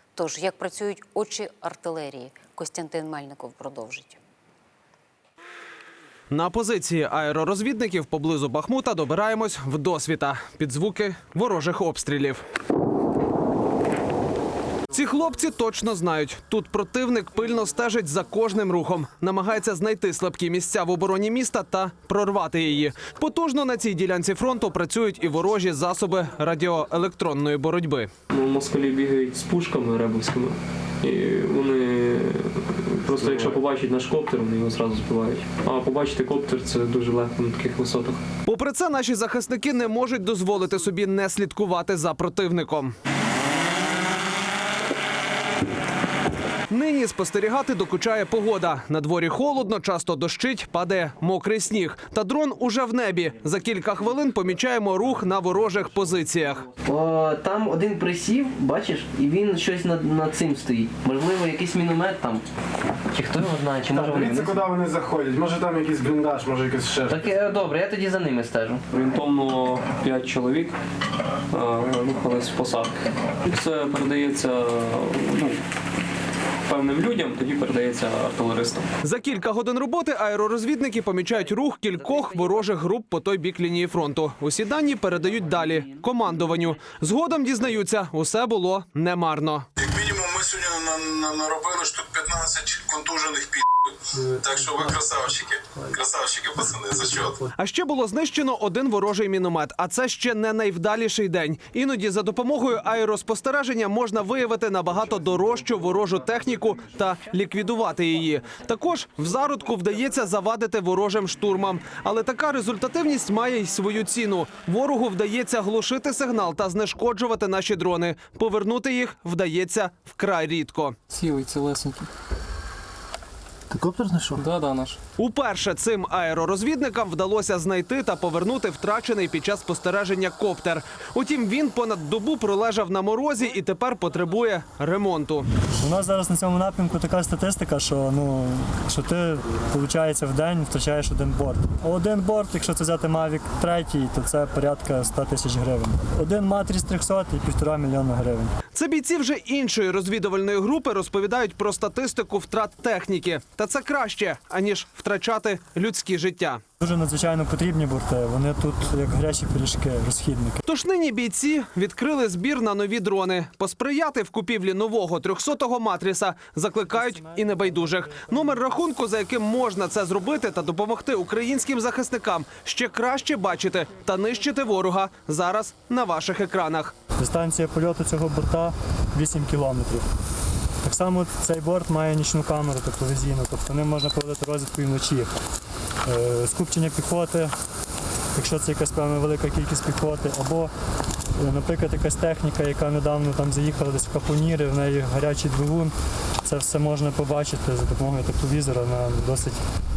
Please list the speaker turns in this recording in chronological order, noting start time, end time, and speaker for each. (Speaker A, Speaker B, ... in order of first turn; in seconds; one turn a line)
Speaker A: 0.1-4.2
Speaker B: 6.3-12.4
Speaker B: 14.9-28.1
Speaker C: 28.3-38.2
Speaker B: 38.5-42.9
Speaker B: 46.7-56.7
Speaker D: 56.8-62.4
Speaker D: 63.1-64.7
Speaker E: 63.9-67.3
Speaker D: 67.1-68.8
Speaker C: 68.9-70.8
Speaker C: 71.5-75.6
Speaker C: 76.6-78.9
Speaker B: 79.0-89.7
Speaker F: 89.8-97.4
Speaker B: 97.6-121.0
Speaker C: 121.1-122.1
Speaker C: 124.4-125.0
Speaker B: 125.2-135.5
Speaker G: 135.8-148.5
Speaker B: 148.7-156.6
Speaker G: 156.8-160.6
Speaker B: 160.7-176.9
Speaker G: 167.0-168.5
Speaker G: 177.2-180.1
Speaker G: 180.8-185.3
Speaker G: 186.1-187.5
Speaker G: 188.3-190.7
Speaker G: 191.4-195.9
Speaker G: 196.4-199.6